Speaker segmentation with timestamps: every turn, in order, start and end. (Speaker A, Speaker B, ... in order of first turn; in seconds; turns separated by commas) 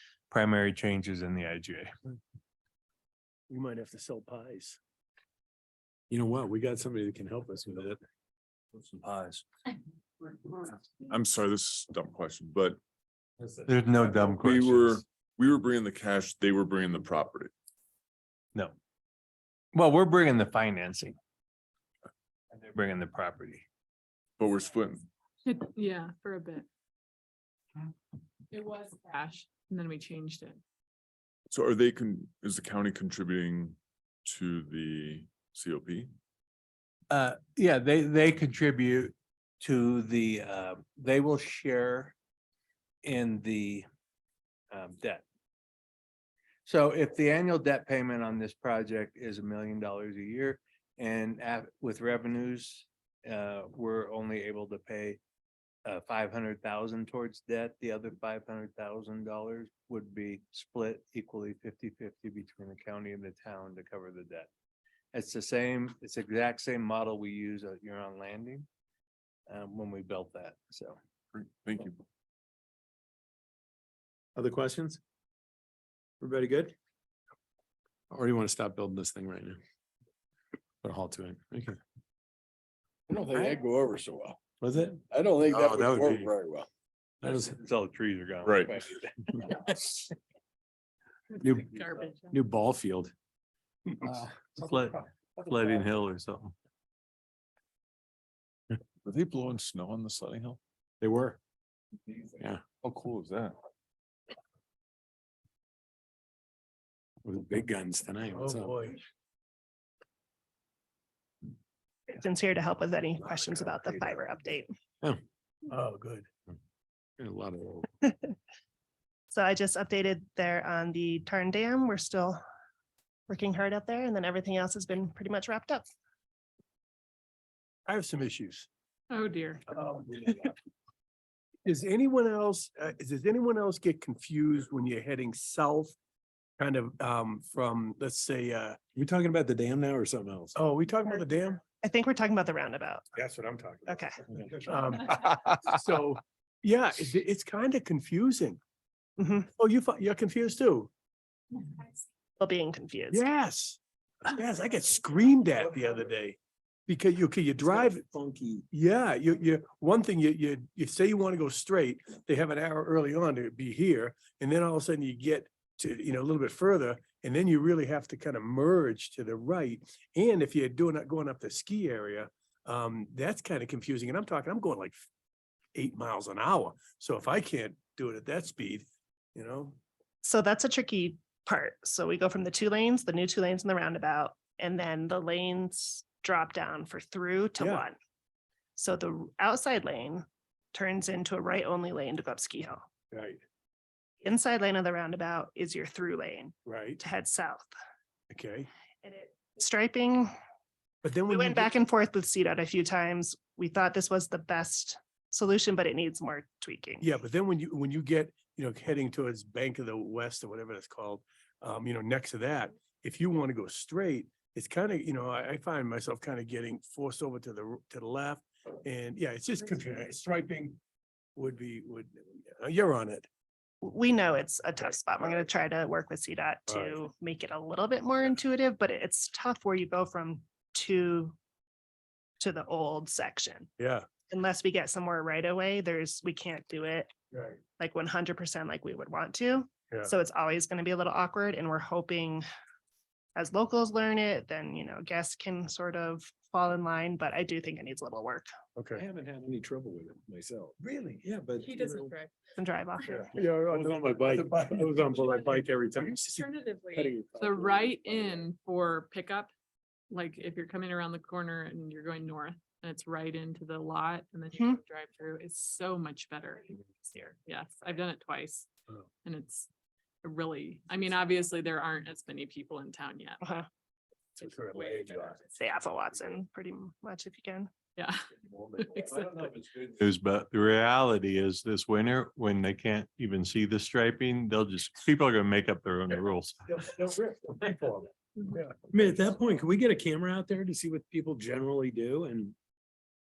Speaker A: 0.3-1.9, Speaker B: 3.5-4.8, Speaker C: 6.1-8.0, Speaker A: 8.7-9.4, Speaker D: 11.0-12.8, Speaker A: 13.7-15.0, Speaker D: 14.4-17.5, Speaker A: 19.7-21.1, Speaker A: 22.6-23.6, Speaker D: 24.4-25.1, Speaker E: 25.4-26.6, Speaker E: 28.5-30.6, Speaker D: 31.5-36.1, Speaker A: 37.1-42.1, Speaker A: 43.0-43.9, Speaker A: 44.7-45.2, Speaker A: 46.6-55.2, Speaker A: 55.9-64.5, Speaker A: 65.1-68.7, Speaker A: 69.5-71.0, Speaker D: 71.3-72.0, Speaker C: 74.3-75.0, Speaker C: 76.2-76.7, Speaker C: 78.1-79.6, Speaker C: 80.8-81.8, Speaker F: 83.1-84.3, Speaker C: 83.3-83.6, Speaker D: 83.5-83.8, Speaker C: 84.6-85.0, Speaker F: 85.2-86.7, Speaker A: 85.5-86.2, Speaker C: 85.7-86.2, Speaker C: 87.2-87.5, Speaker A: 87.2-90.0, Speaker D: 88.4-88.7, Speaker E: 91.3-92.3, Speaker C: 91.4-91.7, Speaker C: 92.3-93.1, Speaker A: 94.1-96.5, Speaker D: 99.0-100.6, Speaker C: 101.0-101.4, Speaker D: 102.8-103.6, Speaker C: 107.2-108.8, Speaker B: 108.3-109.0, Speaker G: 112.1-114.7, Speaker B: 115.7-116.3, Speaker C: 117.2-117.9, Speaker G: 119.3-122.4, Speaker G: 123.3-125.9, Speaker B: 127.9-128.7, Speaker E: 129.1-129.6, Speaker B: 129.7-130.5, Speaker B: 131.6-135.9, Speaker B: 136.6-138.8, Speaker C: 138.9-140.5, Speaker B: 140.5-141.6, Speaker G: 141.7-143.1, Speaker B: 143.1-144.0, Speaker G: 143.9-144.1, Speaker B: 144.6-148.6, Speaker G: 149.2-149.5, Speaker B: 149.6-150.9, Speaker G: 152.4-153.3, Speaker B: 153.1-158.0, Speaker C: 157.6-158.6, Speaker B: 158.7-175.0, Speaker B: 175.7-179.8, Speaker G: 180.2-188.0, Speaker B: 187.6-187.9, Speaker G: 188.8-192.8, Speaker B: 193.1-193.4, Speaker G: 194.2-197.7, Speaker B: 196.6-197.0, Speaker B: 198.3-198.7, Speaker G: 199.0-200.3, Speaker B: 201.0-201.8, Speaker G: 201.3-207.1, Speaker B: 207.0-220.8, Speaker B: 221.3-223.3, Speaker G: 223.8-231.3, Speaker B: 226.7-226.9, Speaker G: 232.4-237.1, Speaker B: 233.8-234.1, Speaker B: 237.3-237.6, Speaker G: 237.7-242.4, Speaker G: 243.3-248.5, Speaker B: 248.7-249.0, Speaker C: 248.9-252.1, Speaker B: 250.8-251.2, Speaker E: 251.6-252.3, Speaker G: 252.6-253.2, Speaker B: 253.1-256.4, Speaker C: 253.3-256.2, Speaker E: 256.2-259.5, Speaker C: 256.9-258.2, Speaker E: 260.1-268.7, Speaker G: 264.5-264.8, Speaker E: 269.2-269.7, Speaker E: 270.2-273.4, Speaker B: 274.5-275.4, Speaker G: 275.4-277.7, Speaker E: 277.9-279.5, Speaker A: 279.7-286.6, Speaker B: 286.7-288.8, Speaker C: 288.9-292.5